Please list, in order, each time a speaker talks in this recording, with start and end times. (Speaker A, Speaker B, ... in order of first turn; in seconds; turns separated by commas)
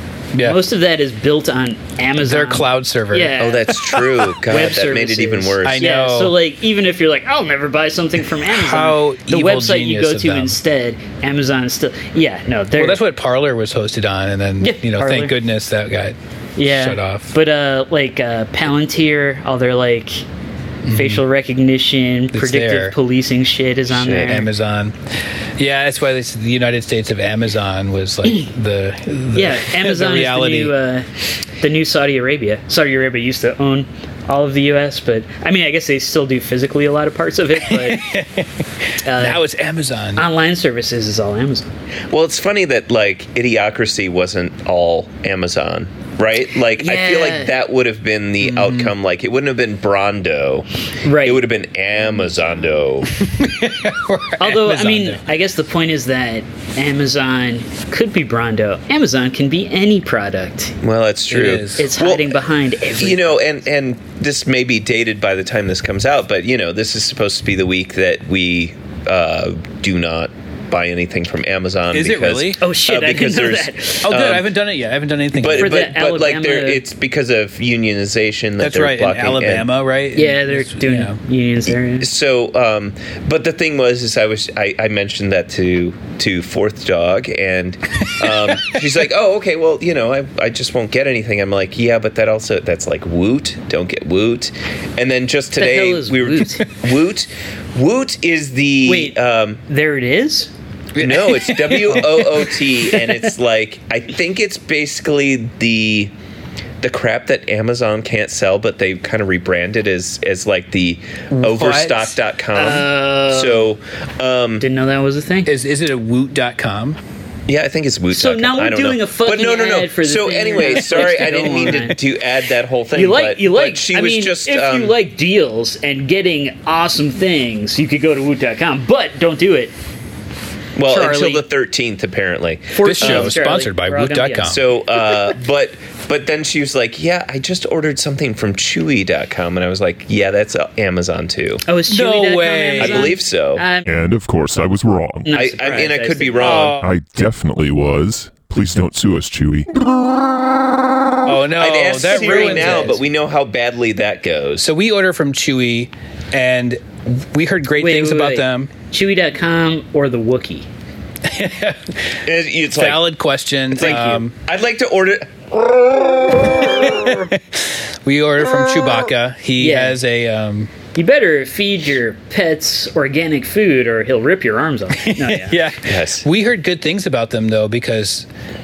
Speaker A: 0.3-0.6, Speaker B: 0.4-13.0, Speaker A: 2.2-3.4, Speaker C: 3.4-5.9, Speaker A: 5.6-6.4, Speaker A: 8.5-10.6, Speaker A: 12.7-17.3, Speaker B: 14.6-15.3, Speaker B: 16.6-20.2, Speaker A: 20.8-21.2, Speaker B: 20.9-24.5, Speaker A: 22.3-22.9, Speaker C: 23.9-24.3, Speaker A: 24.2-25.0, Speaker A: 25.6-30.7, Speaker B: 29.3-31.1, Speaker B: 31.6-38.1, Speaker A: 37.6-40.2, Speaker B: 39.0-39.4, Speaker B: 40.1-41.7, Speaker C: 42.1-50.6, Speaker B: 46.8-47.5, Speaker A: 48.4-48.9, Speaker B: 51.0-51.4, Speaker C: 51.2-53.1, Speaker A: 53.2-55.2, Speaker B: 54.4-60.8, Speaker C: 60.8-62.4, Speaker A: 61.3-61.9, Speaker B: 61.8-63.4, Speaker C: 63.0-74.5, Speaker A: 71.9-72.6, Speaker B: 72.6-74.1, Speaker A: 74.0-75.9, Speaker C: 75.3-79.7, Speaker B: 75.6-76.8, Speaker A: 78.6-81.2, Speaker B: 80.1-82.1, Speaker C: 82.0-99.6, Speaker B: 95.5-96.8, Speaker B: 98.8-100.5, Speaker A: 101.0-102.5, Speaker C: 101.0-106.1, Speaker B: 102.9-103.2, Speaker C: 106.8-114.7, Speaker A: 111.3-112.2, Speaker B: 112.5-113.6, Speaker B: 114.6-115.5, Speaker A: 115.5-117.0, Speaker C: 117.5-125.0, Speaker B: 118.1-122.0, Speaker B: 122.9-129.7, Speaker C: 130.8-133.4, Speaker B: 130.8-131.4, Speaker B: 132.7-134.6, Speaker A: 132.8-134.7, Speaker C: 134.5-141.6, Speaker B: 141.7-143.9, Speaker A: 141.9-143.1, Speaker C: 142.8-143.7, Speaker D: 143.8-145.3, Speaker B: 145.2-146.7, Speaker C: 145.3-146.8, Speaker A: 146.4-146.9, Speaker D: 146.7-149.7, Speaker A: 151.2-153.0, Speaker C: 151.6-154.7, Speaker B: 152.1-152.9, Speaker A: 154.6-158.7, Speaker B: 157.8-160.7, Speaker A: 161.2-162.2, Speaker C: 162.2-163.1, Speaker A: 162.7-164.3, Speaker C: 163.7-167.2, Speaker B: 163.8-164.2, Speaker A: 166.5-170.7, Speaker B: 169.6-170.0, Speaker B: 170.9-175.7, Speaker A: 175.0-178.3, Speaker C: 175.8-176.2